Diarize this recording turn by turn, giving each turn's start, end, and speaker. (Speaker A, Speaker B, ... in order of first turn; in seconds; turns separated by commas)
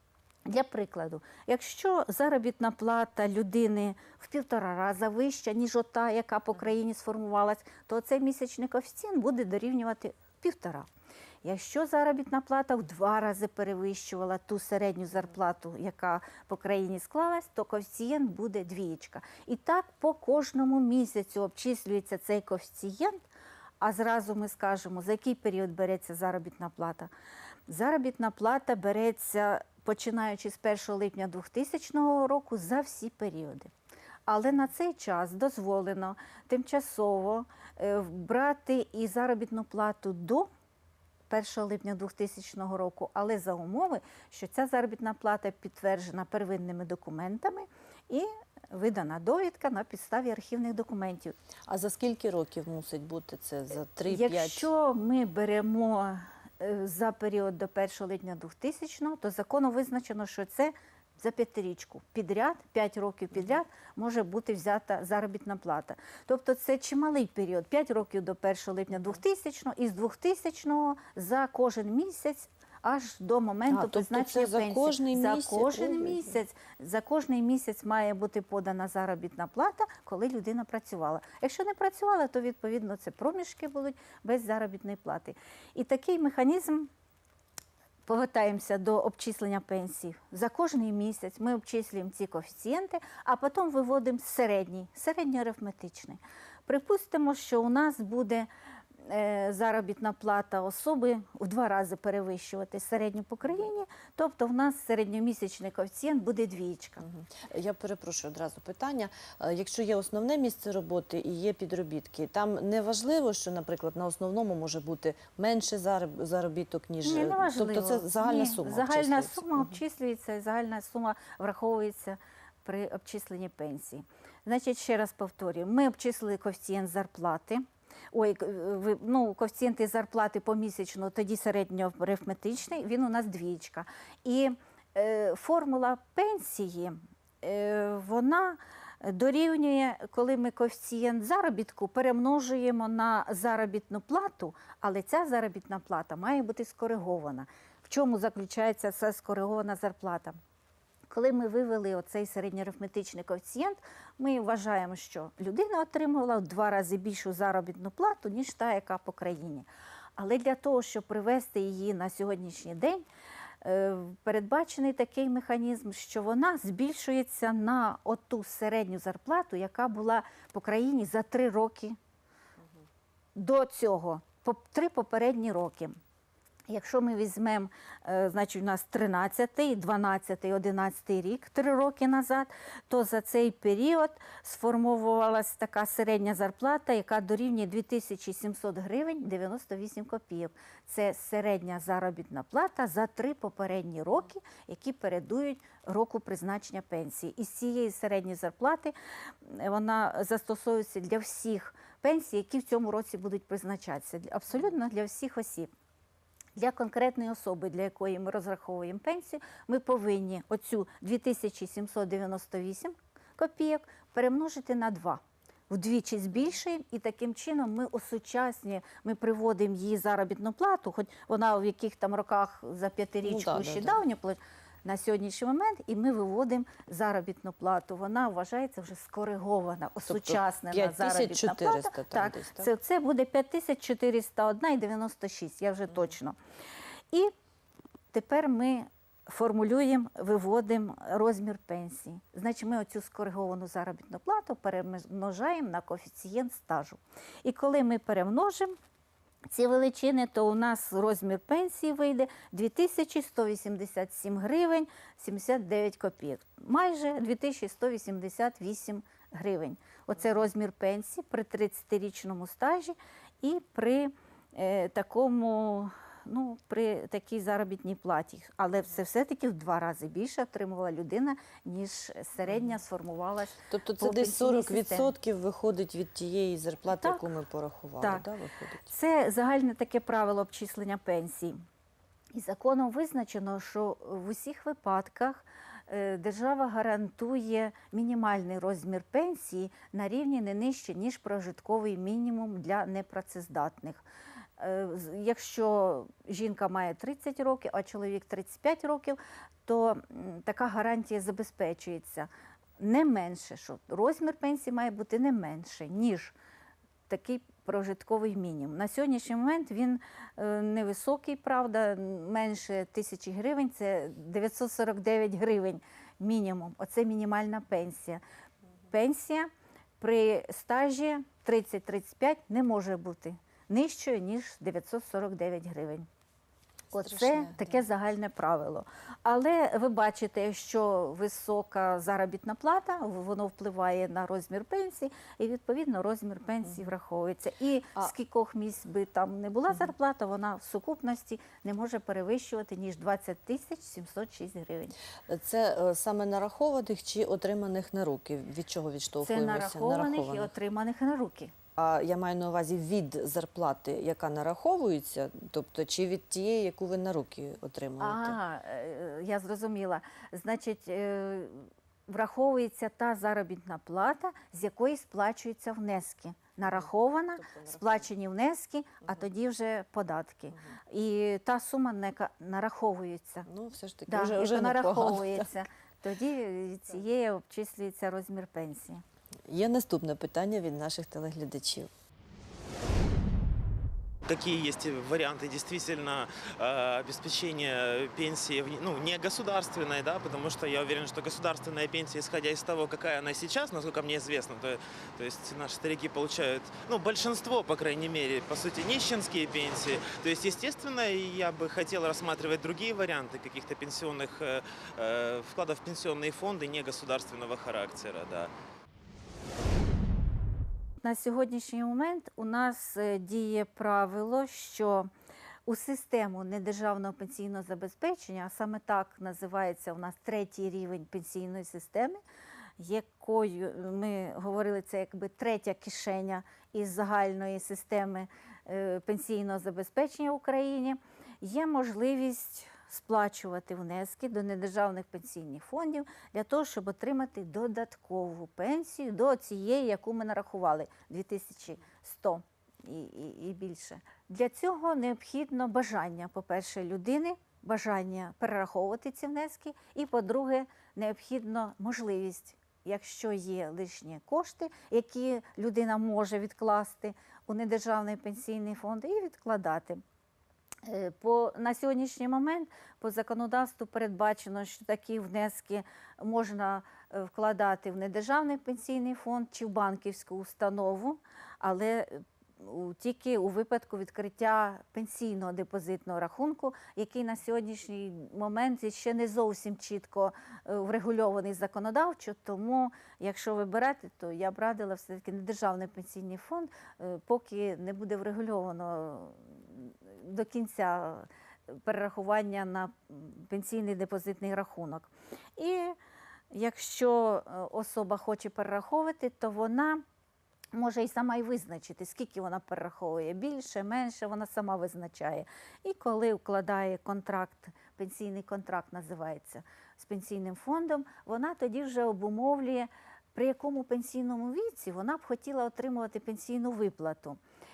Speaker A: 0.5-10.9, Speaker A: 11.4-23.2, Speaker A: 23.8-27.1, Speaker A: 27.7-33.7, Speaker A: 34.3-40.5, Speaker A: 41.3-51.3, Speaker B: 51.7-54.7, Speaker A: 54.1-86.9, Speaker B: 73.7-76.4, Speaker A: 88.1-98.5, Speaker A: 99.0-107.0, Speaker B: 107.0-119.8, Speaker A: 117.0-150.4, Speaker A: 151.1-163.0, Speaker A: 163.6-172.0, Speaker A: 173.3-176.0, Speaker A: 176.7-205.7, Speaker A: 206.6-236.4, Speaker B: 223.2-224.0, Speaker B: 230.1-232.7, Speaker A: 238.1-248.8, Speaker A: 249.5-275.1, Speaker B: 273.7-278.9, Speaker A: 276.9-277.3, Speaker A: 278.0-278.2, Speaker A: 278.8-281.6, Speaker A: 282.3-294.0, Speaker A: 294.6-306.3, Speaker A: 307.1-318.2, Speaker A: 318.9-319.5, Speaker A: 320.0-326.1, Speaker A: 326.9-344.9, Speaker B: 326.9-327.8, Speaker B: 345.3-350.5, Speaker A: 349.2-351.5, Speaker B: 351.8-358.4, Speaker A: 358.0-373.5, Speaker B: 367.4-368.1, Speaker B: 373.4-375.5, Speaker A: 374.1-379.0, Speaker B: 379.5-381.9, Speaker C: 384.2-408.5, Speaker A: 411.0-415.1, Speaker A: 415.7-422.2, Speaker A: 422.8-460.0, Speaker A: 460.8-495.9, Speaker A: 496.5-500.0, Speaker A: 500.7-517.4